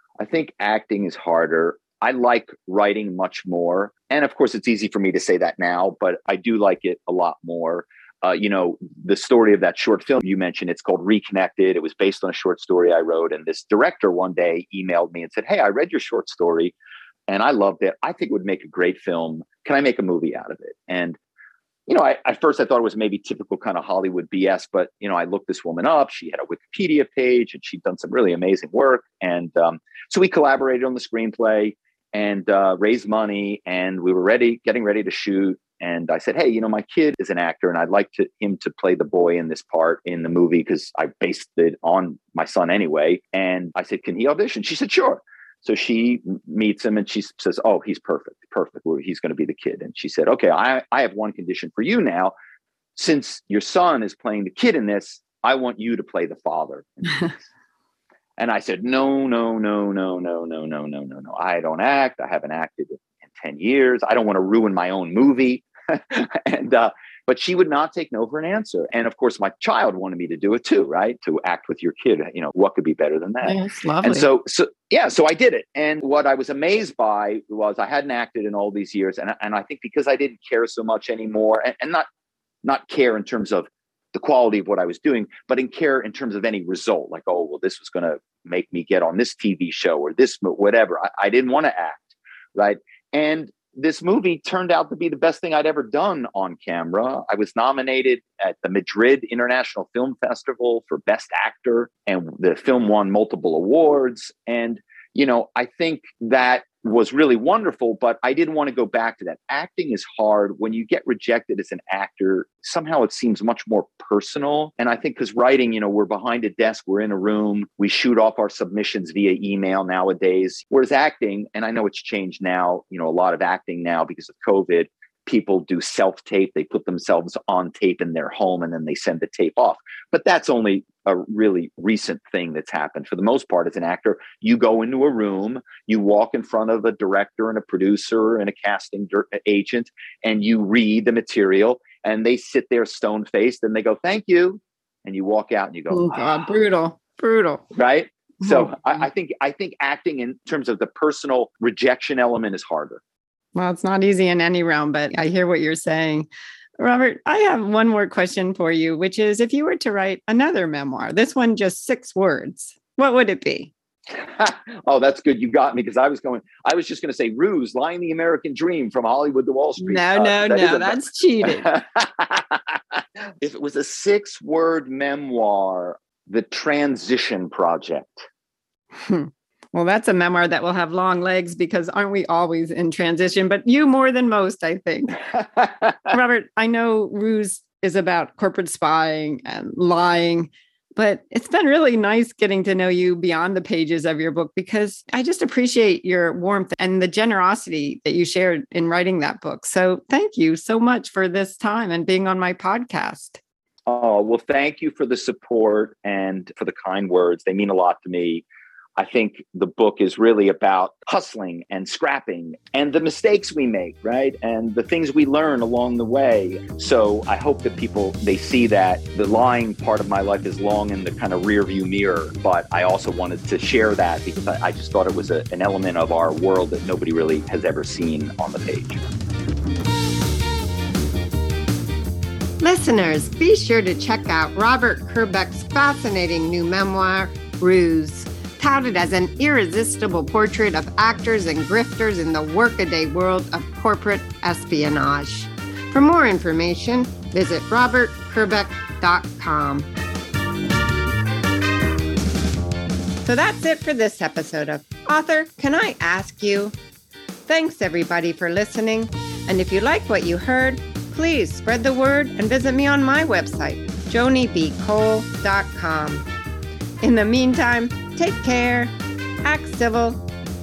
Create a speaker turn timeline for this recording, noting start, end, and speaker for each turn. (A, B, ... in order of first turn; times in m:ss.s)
0:00.2-0:16.7 A
0:17.3-0:21.2 A
0:21.9-0:52.3 A
0:53.0-0:57.4 A
0:58.4-1:22.0 A
1:13.4-1:14.2 B
1:22.6-2:26.4 A
2:25.9-2:27.6 B
2:27.7-2:33.0 A
2:28.4-2:28.7 B
2:33.5-2:36.3 B
2:36.8-2:43.7 B
2:44.1-2:58.2 A
2:49.8-2:51.7 B
2:59.0-3:05.2 B
3:05.6-3:05.9 A
3:06.1-3:23.4 B
3:23.9-3:28.4 A
3:29.0-3:49.0 A
3:52.6-4:09.9 B
4:13.2-4:16.7 B
4:17.5-4:26.2 B
4:27.0-4:28.9 B
4:29.4-4:30.2 B